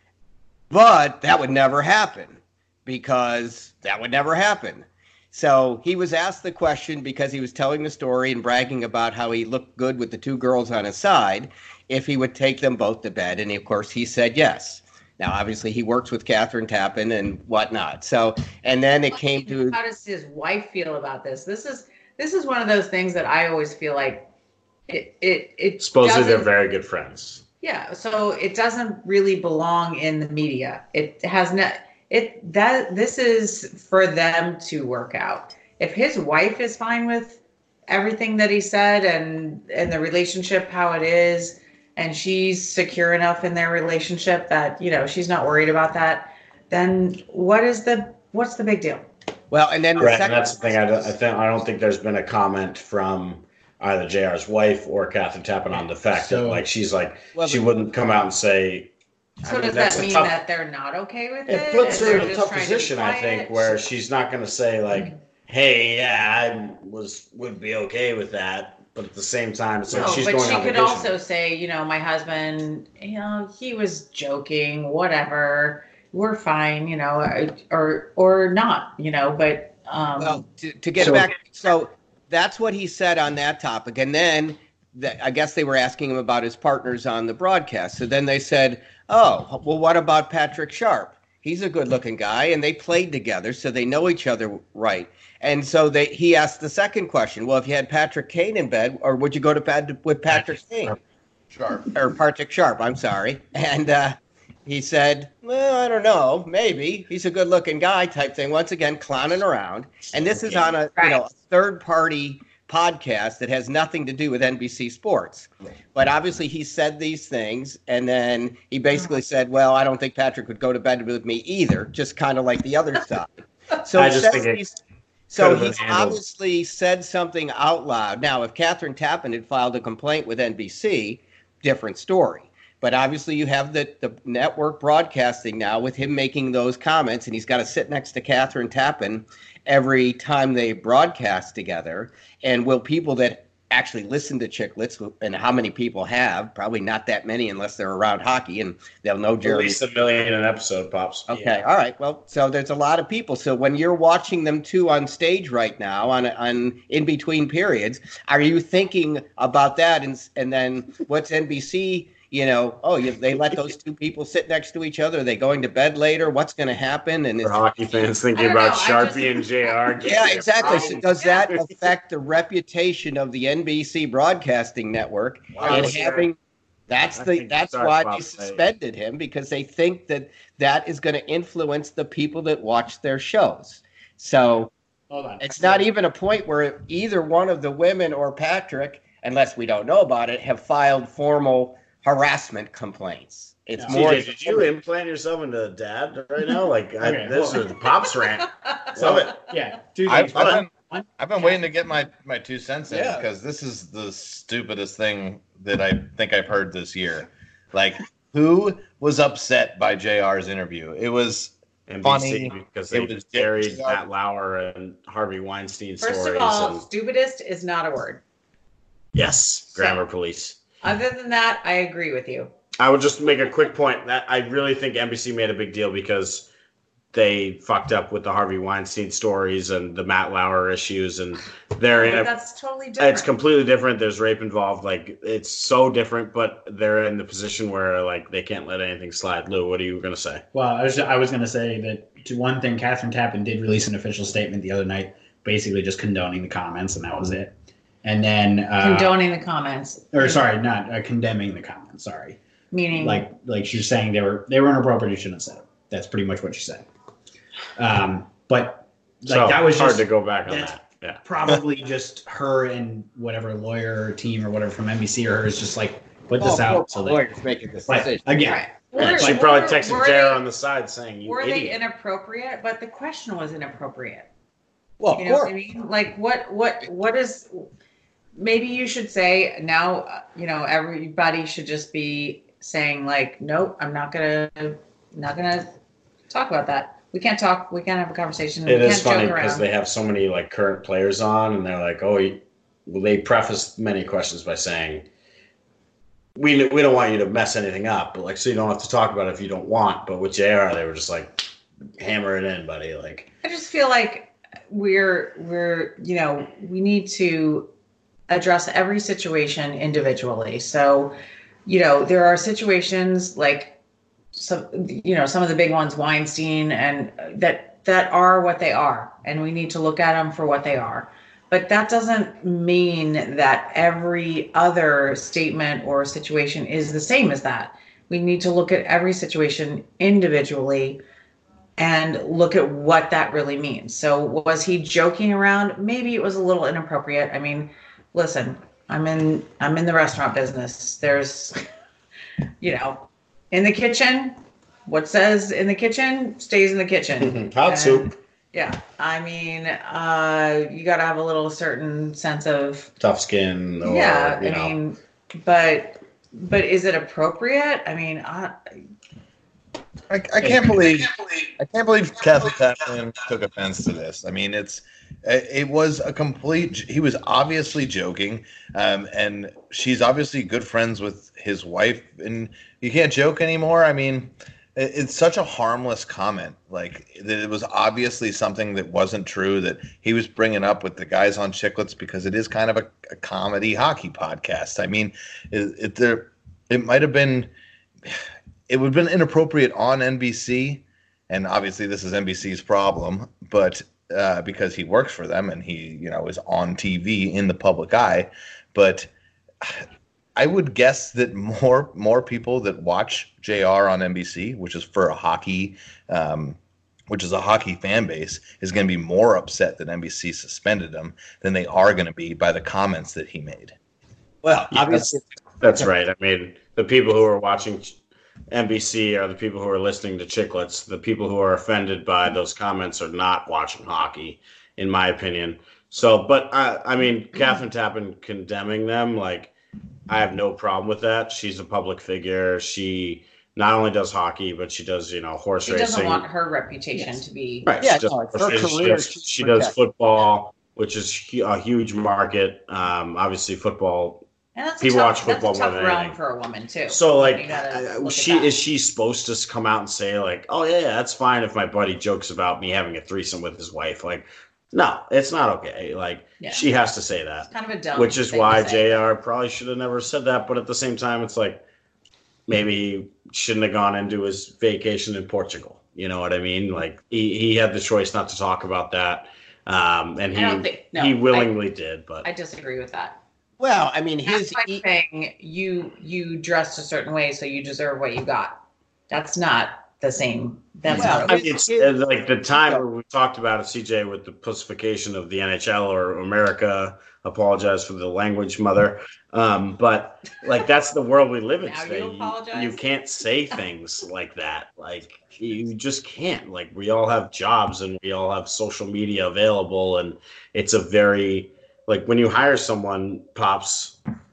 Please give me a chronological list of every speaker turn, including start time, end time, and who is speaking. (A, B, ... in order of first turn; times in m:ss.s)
0:00.7-0:19.8 A
0:19.3-0:24.3 B
0:24.9-0:26.5 B
0:25.8-0:27.4 C
0:27.6-0:49.0 B
0:49.5-0:50.7 A
0:50.0-1:00.3 C
0:55.7-0:56.6 D
0:57.4-0:57.8 A
0:59.4-1:03.8 B
1:01.5-1:11.2 C
1:09.9-1:20.4 B
1:20.2-1:41.0 A
1:41.5-1:41.9 E
1:41.9-2:04.8 A
2:03.9-2:04.6 C
2:05.3-2:29.8 A
2:05.3-2:06.2 C
2:29.4-2:31.6 C
2:31.3-2:47.6 A
2:47.4-2:51.5 C
2:48.3-2:49.8 B
2:50.0-2:56.4 A
2:50.6-2:51.3 B
2:55.6-2:56.3 C
2:56.9-3:04.7 A
2:57.1-2:58.6 C
3:05.1-3:05.9 D
3:05.4-3:14.7 A
3:13.8-3:14.2 D
3:13.9-3:19.4 C
3:17.0-3:17.7 D
3:19.0-3:21.1 D
3:20.1-3:34.0 E
3:22.9-3:23.2 A
3:31.9-3:36.8 C
3:36.0-3:38.2 B
3:39.1-3:40.6 C
3:40.8-3:42.5 B
3:42.8-3:46.5 C
3:47.1-3:52.3 C
3:52.0-3:53.3 B
3:53.0-4:00.4 C
4:00.5-4:09.2 D
4:08.8-4:10.4 B
4:10.1-4:12.4 D
4:12.7-4:13.3 B
4:12.9-4:16.9 D
4:17.8-4:27.3 D
4:19.2-4:21.2 C
4:26.4-4:28.2 A
4:27.9-4:29.4 D
4:28.4-4:30.4 B
4:29.0-4:31.8 C
4:31.3-4:34.3 B
4:35.0-4:35.5 A
4:35.2-4:37.7 B
4:38.4-4:45.7 B
4:46.3-4:49.7 B
4:48.7-4:55.0 C
4:56.4-5:01.4 C
5:02.0-5:03.3 C
5:03.4-5:07.7 B
5:08.3-5:11.2 B
5:11.7-5:13.8 B
5:14.3-5:31.0 B
5:31.8-5:41.6 B
5:42.6-5:52.9 B
5:47.2-5:48.1 C
5:53.0-5:54.8 C
5:53.8-5:58.6 B
6:00.1-6:27.5 E
6:00.4-6:00.7 D
6:28.1-6:39.1 E
6:40.4-6:46.6 E
6:47.1-6:53.8 E
6:54.4-6:55.9 A
6:54.7-6:58.0 C
6:58.5-7:09.5 C
7:10.1-7:16.3 C
7:15.6-7:17.7 B
7:17.6-7:24.2 C
7:17.8-7:19.7 A
7:24.6-7:28.5 B
7:24.8-7:26.2 C
7:26.9-7:41.6 C
7:36.4-7:36.6 B
7:37.5-7:39.0 B
7:42.5-7:52.3 C
7:50.4-7:51.6 B
7:52.2-7:53.2 B
7:53.6-7:54.8 A
7:54.3-8:01.4 B
8:00.9-8:02.0 A
8:00.9-8:24.0 C
8:02.5-8:02.8 A
8:11.6-8:12.8 B